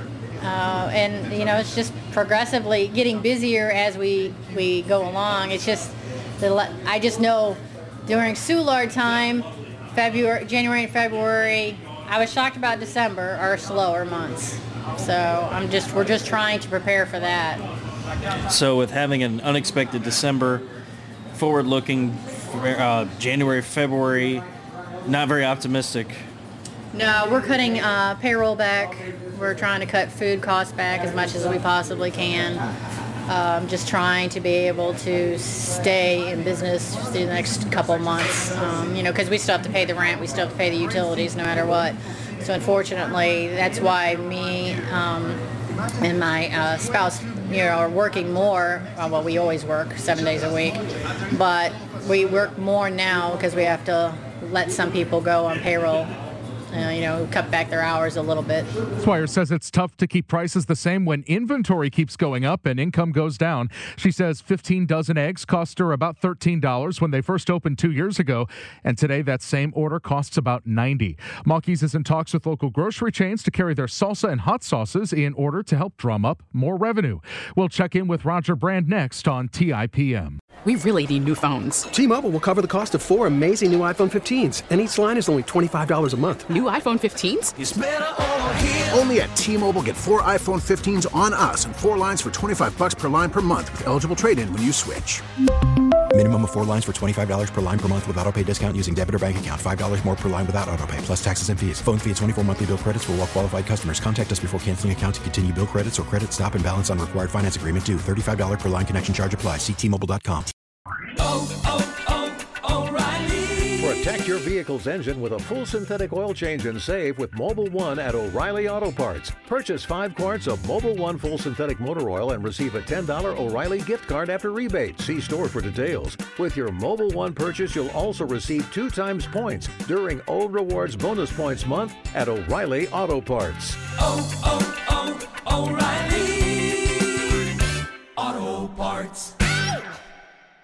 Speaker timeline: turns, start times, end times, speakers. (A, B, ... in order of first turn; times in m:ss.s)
0:00.4-0:17.6 A
0:18.5-0:20.6 B
0:21.3-0:24.4 B
0:25.0-0:26.2 B
0:26.9-0:32.6 A
0:33.3-0:45.4 A
0:46.0-0:50.8 A
0:51.3-0:56.1 A
0:56.7-0:58.7 A
0:59.0-1:20.4 C
1:20.6-1:22.0 D
1:26.4-1:27.5 D
1:28.9-1:35.2 E
1:36.1-1:50.5 F
1:53.8-2:13.8 F